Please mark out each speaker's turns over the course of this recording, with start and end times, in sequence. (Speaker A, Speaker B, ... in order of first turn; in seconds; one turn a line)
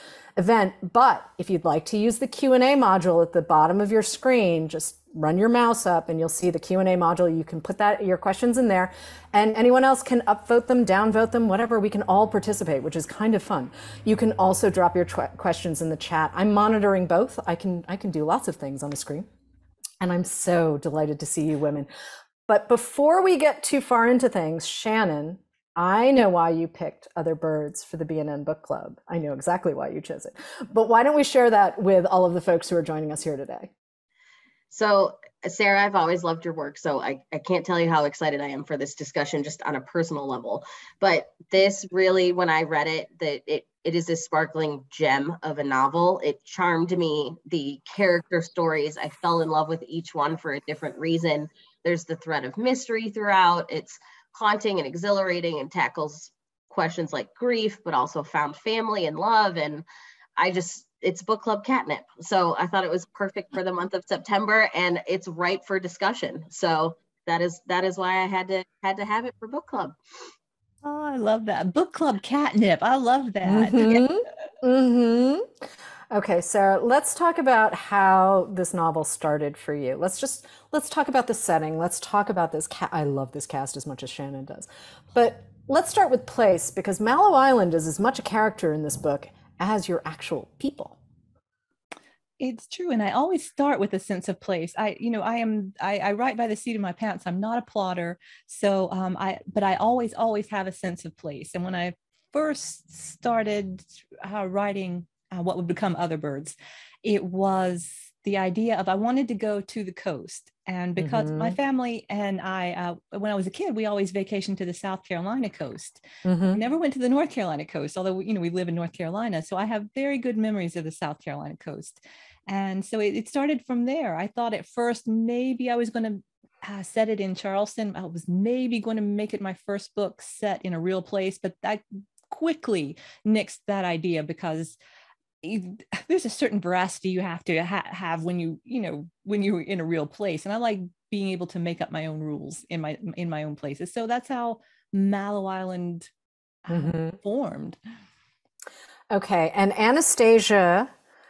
Speaker A: 0.4-19.3
Speaker A: 20.0-21.9
Speaker A: 22.5-33.7
Speaker B: 34.7-59.9
Speaker B: 60.4-70.0
Speaker C: 70.8-74.1
Speaker A: 73.4-91.0
Speaker C: 92.4-134.8
Speaker A: 111.0-111.6
Speaker A: 116.2-116.6
Speaker C: 135.4-146.1
Speaker C: 146.7-147.8
Speaker A: 146.7-147.2
Speaker A: 149.1-150.9